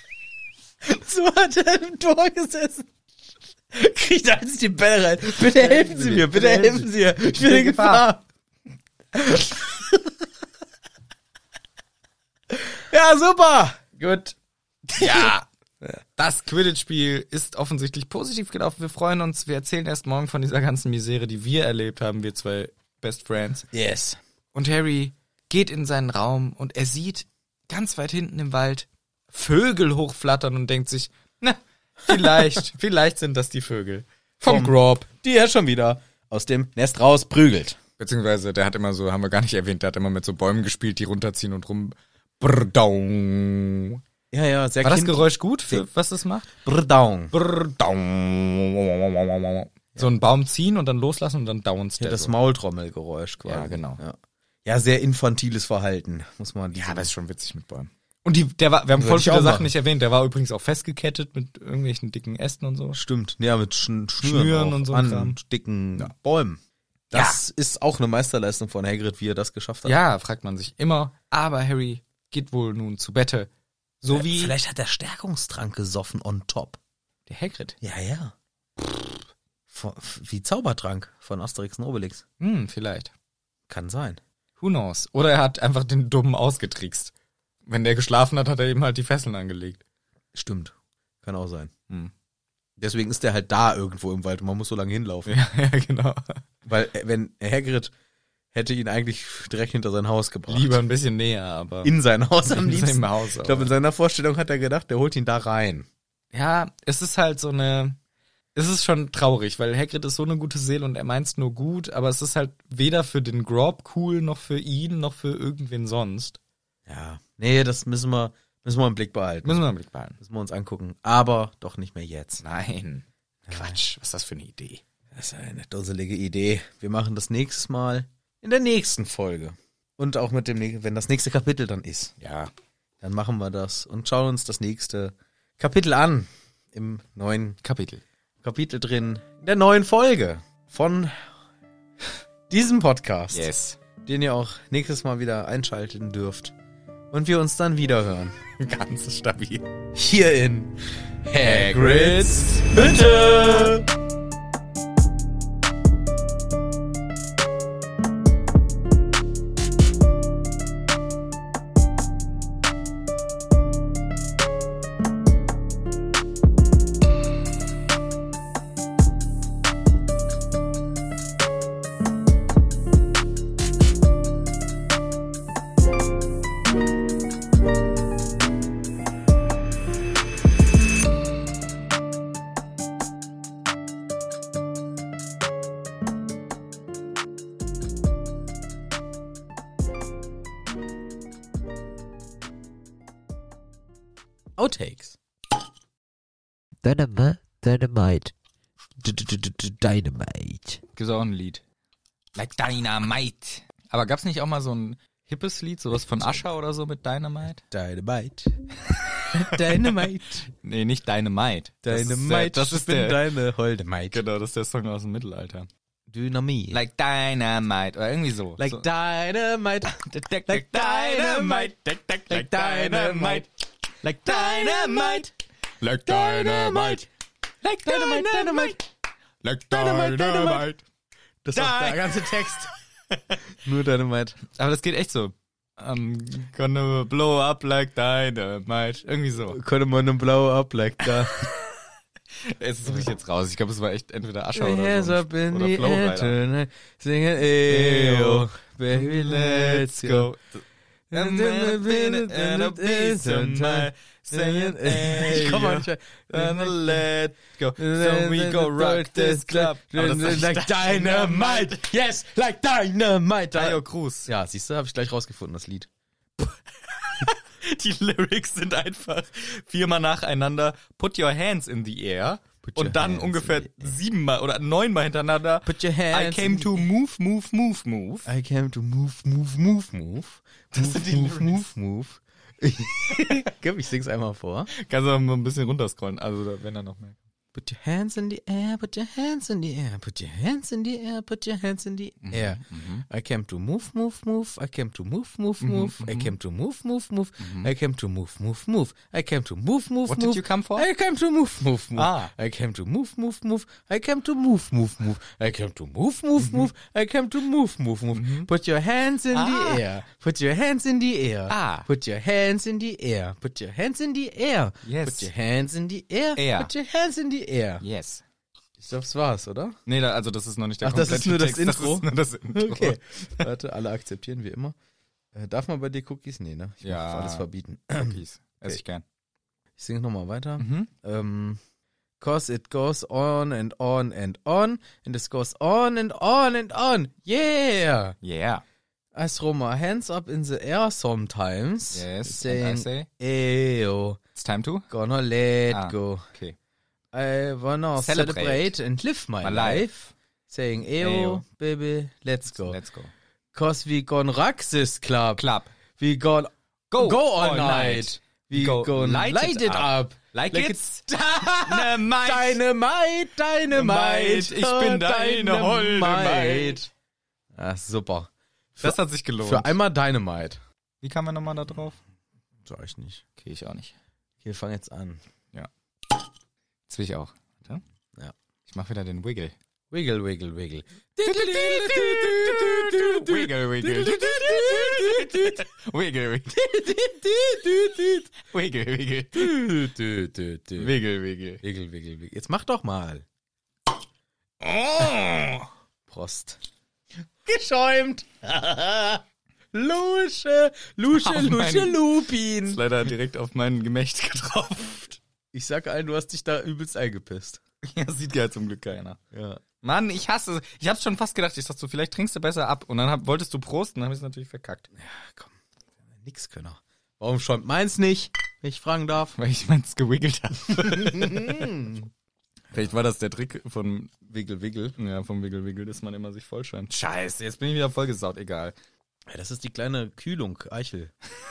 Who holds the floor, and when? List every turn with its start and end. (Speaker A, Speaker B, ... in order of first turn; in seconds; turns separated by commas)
Speaker A: 0.8-2.9, Speaker A: 3.7-8.2, Speaker B: 5.3-8.1, Speaker A: 9.1-10.1, Speaker A: 12.8-14.3, Speaker B: 14.9-15.4, Speaker A: 14.9-16.0, Speaker B: 16.2-23.7, Speaker A: 23.7-24.2, Speaker B: 24.5-35.1, Speaker A: 32.1-32.6, Speaker A: 34.4-37.8, Speaker B: 38.0-44.0, Speaker A: 44.3-45.8, Speaker B: 44.8-46.5, Speaker A: 46.6-47.3, Speaker B: 47.3-52.3, Speaker A: 52.0-57.1, Speaker B: 53.5-54.0, Speaker B: 56.7-63.0, Speaker A: 58.9-59.7, Speaker A: 62.9-66.6, Speaker B: 64.2-65.4, Speaker A: 67.1-70.0, Speaker B: 67.1-67.4, Speaker B: 69.8-73.5, Speaker B: 74.0-74.5, Speaker A: 74.1-76.8, Speaker B: 77.3-77.8, Speaker A: 77.8-78.3, Speaker A: 79.7-82.2, Speaker B: 82.4-83.1, Speaker A: 83.7-84.2, Speaker B: 84.6-87.1, Speaker B: 87.7-89.8, Speaker A: 90.3-91.7, Speaker A: 92.8-95.3, Speaker B: 95.2-96.4, Speaker A: 96.7-97.9, Speaker A: 98.5-100.8, Speaker B: 100.5-101.9, Speaker A: 101.8-105.9, Speaker B: 102.5-103.7, Speaker B: 106.3-108.0, Speaker B: 108.5-116.4, Speaker A: 116.9-119.6, Speaker B: 119.4-120.2, Speaker A: 120.2-122.4, Speaker B: 122.4-124.8, Speaker A: 123.5-123.8, Speaker A: 125.1-132.1, Speaker B: 132.2-132.5, Speaker A: 133.0-137.6, Speaker B: 137.6-138.0, Speaker A: 138.4-141.3, Speaker A: 142.5-143.5, Speaker B: 143.3-143.8, Speaker A: 144.0-146.5, Speaker A: 147.1-148.4, Speaker B: 148.6-149.7, Speaker A: 149.9-153.8, Speaker B: 151.4-153.8, Speaker A: 194.6-195.2, Speaker C: 196.8-198.3, Speaker C: 199.0-200.8, Speaker B: 200.9-201.6, Speaker B: 202.3-207.6, Speaker A: 207.7-208.5, Speaker B: 208.9-213.2, Speaker A: 209.3-210.5, Speaker A: 211.8-214.2, Speaker B: 214.1-215.7, Speaker A: 216.1-216.8, Speaker B: 216.7-218.8, Speaker A: 218.6-221.7, Speaker B: 219.9-225.3, Speaker A: 222.3-223.4, Speaker A: 224.1-225.3, Speaker B: 225.8-227.0, Speaker A: 226.1-227.1, Speaker B: 227.6-228.8, Speaker A: 227.8-228.8, Speaker B: 229.4-230.8, Speaker A: 229.7-230.7, Speaker A: 231.4-232.7, Speaker B: 231.5-233.4, Speaker A: 233.6-234.4, Speaker B: 234.6-239.6, Speaker A: 239.5-241.4, Speaker B: 241.3-241.6, Speaker B: 242.4-246.3, Speaker A: 244.5-250.3, Speaker B: 247.7-261.9, Speaker A: 251.1-257.1, Speaker A: 257.8-265.9, Speaker B: 263.5-264.3, Speaker B: 266.4-278.3, Speaker A: 272.6-273.9, Speaker A: 275.6-276.9, Speaker A: 278.2-284.7, Speaker B: 280.7-281.6, Speaker B: 284.7-287.2, Speaker A: 287.5-317.8, Speaker B: 292.2-293.1, Speaker B: 295.6-296.3, Speaker B: 297.4-297.7, Speaker B: 300.1-300.9, Speaker B: 301.9-302.3, Speaker B: 306.4-306.7, Speaker B: 308.1-308.5, Speaker B: 309.3-309.9, Speaker B: 311.5-311.9, Speaker B: 314.8-315.3, Speaker B: 316.4-316.7, Speaker B: 317.8-318.2, Speaker A: 318.8-319.8, Speaker B: 319.9-323.5, Speaker A: 320.8-324.7, Speaker A: 325.3-328.8, Speaker B: 326.8-327.4, Speaker B: 328.0-329.0, Speaker A: 329.8-331.6, Speaker B: 330.6-330.9, Speaker A: 332.2-338.1, Speaker B: 338.2-338.6, Speaker A: 339.1-344.2, Speaker B: 341.9-343.1, Speaker B: 344.3-344.9, Speaker A: 344.9-346.3, Speaker B: 345.7-346.6, Speaker A: 347.1-352.8, Speaker B: 348.0-348.7, Speaker B: 349.4-350.1, Speaker B: 351.0-351.4, Speaker B: 352.5-353.1, Speaker A: 353.5-366.9, Speaker B: 355.4-355.7, Speaker B: 356.9-361.1, Speaker B: 361.6-362.6, Speaker B: 363.7-366.8, Speaker A: 367.5-370.6, Speaker B: 368.8-369.8, Speaker B: 371.0-372.0, Speaker A: 372.6-373.2, Speaker B: 373.4-373.9, Speaker A: 374.4-375.2, Speaker B: 375.5-376.1, Speaker B: 376.9-377.8, Speaker B: 378.7-379.6, Speaker A: 379.9-385.6, Speaker B: 381.2-386.6, Speaker A: 386.5-388.3, Speaker B: 388.3-389.7, Speaker A: 389.3-390.9, Speaker B: 390.8-391.6, Speaker A: 391.6-393.2, Speaker B: 394.6-395.7, Speaker A: 396.1-396.6, Speaker A: 397.4-399.2, Speaker A: 399.7-402.8, Speaker B: 401.1-402.0, Speaker B: 402.6-405.2, Speaker A: 405.5-407.6, Speaker B: 407.8-409.2, Speaker A: 409.3-409.6, Speaker B: 409.8-414.9, Speaker A: 414.9-415.6, Speaker A: 416.1-419.4, Speaker B: 419.3-421.9, Speaker A: 420.7-422.1, Speaker B: 422.7-424.3, Speaker A: 424.3-424.9, Speaker B: 424.9-428.8, Speaker A: 429.3-431.1